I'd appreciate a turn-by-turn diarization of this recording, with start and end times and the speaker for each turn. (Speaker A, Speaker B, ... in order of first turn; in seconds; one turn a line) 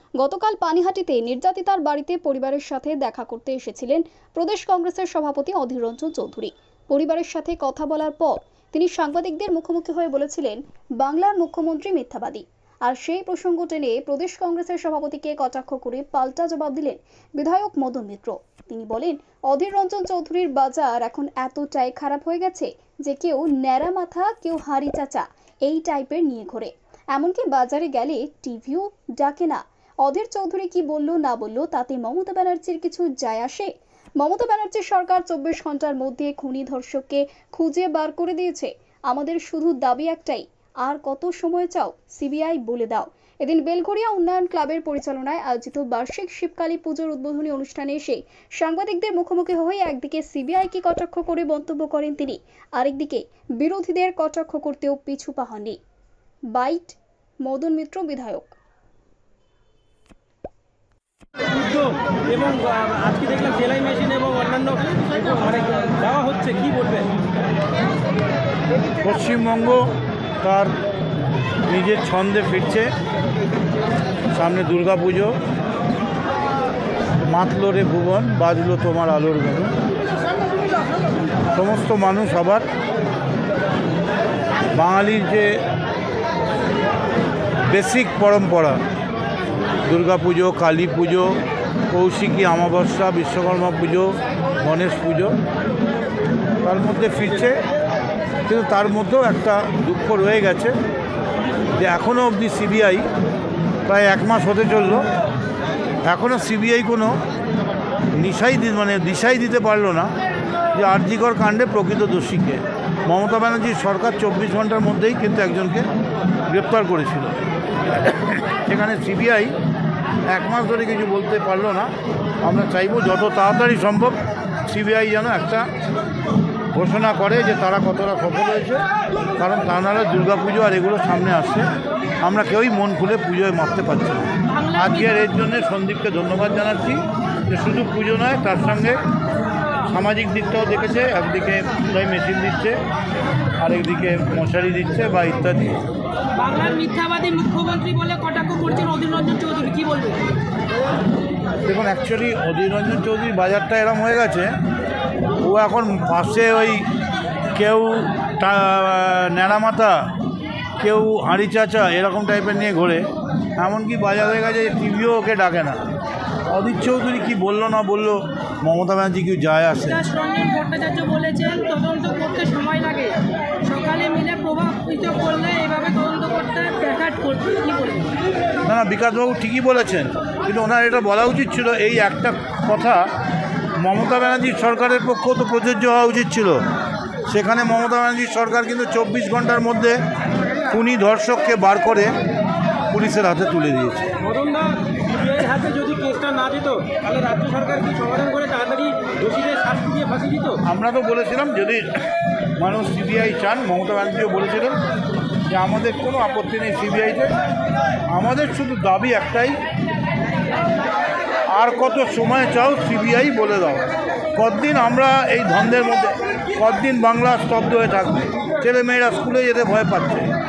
Speaker A: 0.2-55.8
Speaker A: 56.5-58.6
Speaker B: 62.3-67.1
Speaker C: 69.0-69.9
Speaker C: 70.4-70.8
Speaker C: 71.7-72.9
Speaker C: 74.3-75.4
Speaker C: 77.2-79.8
Speaker C: 81.5-82.7
Speaker C: 84.8-85.6
Speaker C: 87.7-88.8
Speaker C: 89.9-91.4
Speaker C: 91.9-95.4
Speaker C: 96.6-97.6
Speaker C: 98.5-100.8
Speaker C: 101.8-103.1
Speaker C: 103.9-105.0
Speaker C: 106.0-107.2
Speaker C: 108.2-110.1
Speaker C: 110.7-115.9
Speaker C: 116.5-119.5
Speaker C: 120.3-121.9
Speaker C: 122.4-125.7
Speaker C: 126.7-128.9
Speaker C: 129.4-131.7
Speaker C: 132.2-139.0
Speaker D: 134.5-135.2
Speaker C: 139.9-142.8
Speaker C: 143.6-145.8
Speaker D: 146.4-150.2
Speaker C: 151.7-154.5
Speaker C: 155.4-156.8
Speaker C: 157.6-160.1
Speaker C: 160.8-165.8
Speaker C: 166.5-170.1
Speaker D: 169.9-178.1
Speaker C: 178.7-183.1
Speaker C: 183.8-186.6
Speaker C: 187.3-190.0
Speaker C: 190.7-192.1
Speaker C: 192.9-194.2
Speaker B: 194.2-200.6
Speaker C: 200.7-201.8
Speaker C: 202.6-204.8
Speaker C: 205.5-207.3
Speaker C: 208.1-209.6
Speaker C: 211.5-220.3